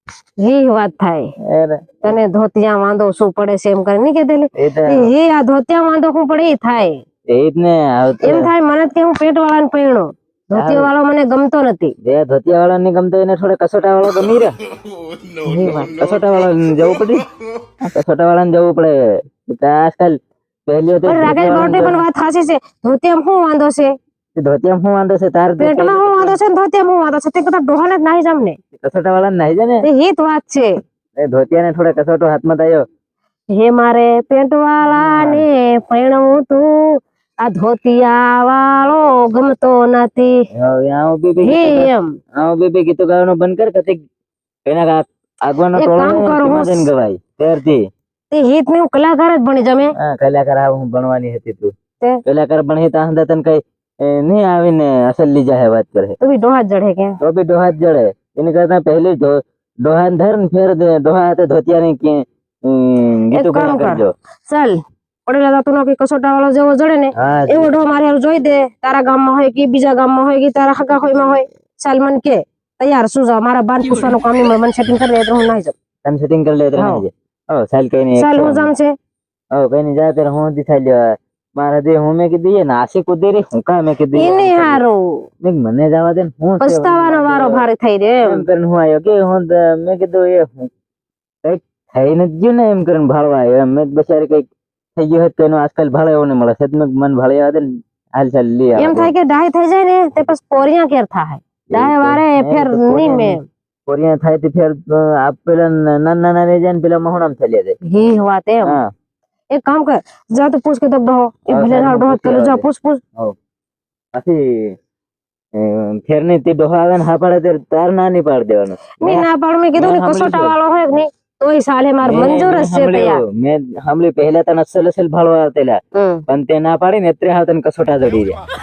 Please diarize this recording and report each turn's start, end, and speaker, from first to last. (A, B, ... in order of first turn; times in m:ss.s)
0:00.4-0:01.3 A
0:01.5-0:01.8 B
0:02.0-0:07.0 A
0:04.6-0:05.1 B
0:07.3-0:08.5 B
0:08.2-0:11.9 A
0:10.6-0:10.9 B
0:12.0-0:14.5 B
0:15.4-0:15.9 A
0:15.6-0:17.3 B
0:17.8-0:22.0 B
0:21.1-0:23.9 A
0:24.4-0:26.4 B
0:25.6-0:28.6 A
0:28.8-0:29.8 B
0:29.8-0:30.7 A
0:31.2-0:32.8 B
0:33.6-0:40.4 A
0:34.8-0:35.4 B
0:40.6-0:44.0 B
0:41.4-0:42.2 A
0:44.7-0:47.8 B
0:45.8-0:46.9 A
0:48.3-0:49.9 A
0:50.0-0:51.7 B
0:52.3-0:56.2 B
0:56.2-0:57.2 A
0:57.2-1:04.1 B
1:03.3-1:15.8 A
1:07.2-1:07.7 B
1:16.0-1:18.7 B
1:16.8-1:17.0 A
1:18.2-1:18.9 A
1:19.6-1:24.8 B
1:24.1-1:25.2 A
1:25.4-1:27.6 B
1:26.6-1:28.4 A
1:28.2-1:30.7 B
1:31.4-1:37.6 B
1:38.2-1:39.1 B
1:38.8-1:43.4 A
1:41.7-1:47.8 B
1:47.9-1:48.7 A
1:49.5-1:53.0 A
1:51.5-1:52.6 B
1:54.2-1:54.8 B
1:55.6-2:00.6 B
1:59.0-2:03.2 A
2:02.0-2:08.4 B
2:06.0-2:06.2 A